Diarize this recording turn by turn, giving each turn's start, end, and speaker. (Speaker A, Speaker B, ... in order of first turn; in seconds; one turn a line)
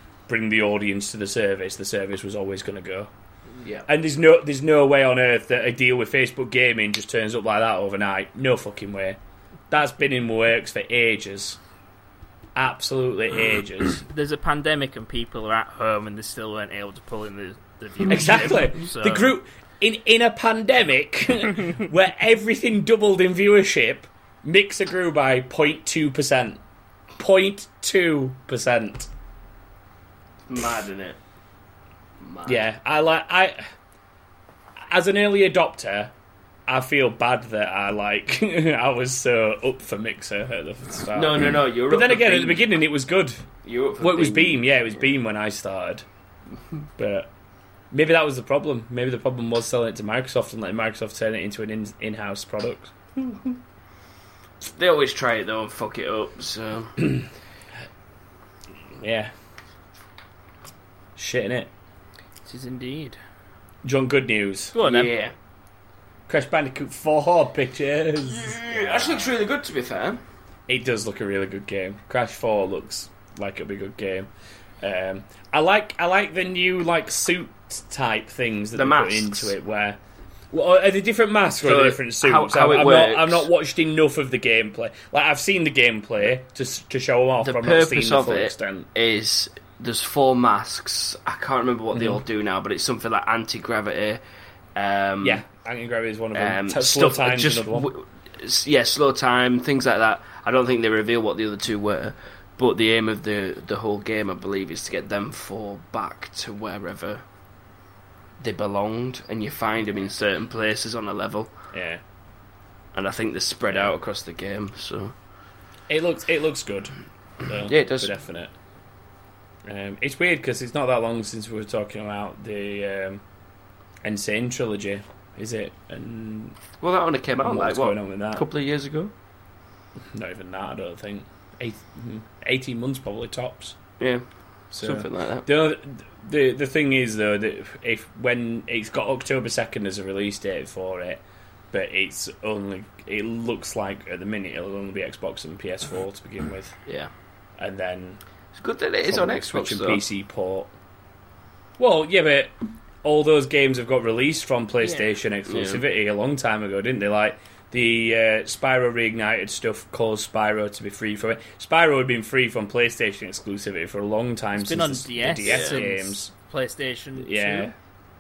Speaker A: 0.3-3.1
Speaker B: 3.6-3.9
Speaker A: 3.9-9.2
Speaker A: 9.7-11.6
Speaker A: 12.6-14.0
Speaker C: 14.0-19.4
Speaker A: 18.1-26.6
Speaker A: 27.2-29.1
Speaker B: 30.5-31.2
Speaker B: 32.2-32.6
Speaker A: 32.5-33.6
Speaker A: 34.9-36.1
Speaker A: 36.7-43.5
Speaker B: 41.1-42.7
Speaker B: 43.6-44.7
Speaker A: 44.0-46.0
Speaker A: 47.0-47.3
Speaker A: 47.9-52.9
Speaker B: 53.2-53.6
Speaker B: 54.6-57.0
Speaker A: 59.0-59.3
Speaker A: 61.2-61.7
Speaker C: 62.5-63.2
Speaker A: 63.8-64.7
Speaker C: 64.7-65.1
Speaker B: 64.8-65.3
Speaker A: 66.3-69.3
Speaker B: 68.3-70.2
Speaker A: 70.7-74.3
Speaker A: 74.8-80.0
Speaker B: 78.8-79.5
Speaker A: 80.5-88.9
Speaker B: 81.6-83.5
Speaker B: 87.4-94.2
Speaker A: 91.9-92.2
Speaker B: 94.8-95.4
Speaker A: 95.2-97.9
Speaker B: 96.3-107.2
Speaker B: 108.4-111.5
Speaker A: 111.7-112.0
Speaker B: 112.9-115.1
Speaker A: 113.7-114.0
Speaker A: 115.9-116.9
Speaker A: 117.4-118.5
Speaker B: 117.7-118.1
Speaker A: 119.7-123.2
Speaker A: 124.0-126.6
Speaker B: 126.8-129.1
Speaker A: 127.4-128.5
Speaker A: 130.1-133.8
Speaker A: 134.7-146.8
Speaker B: 134.8-135.5
Speaker A: 147.6-148.2
Speaker B: 148.5-150.0
Speaker A: 149.1-150.7
Speaker A: 151.8-166.3
Speaker C: 154.8-155.1
Speaker B: 155.5-155.8
Speaker C: 164.6-167.7
Speaker B: 165.4-165.8
Speaker A: 167.2-167.7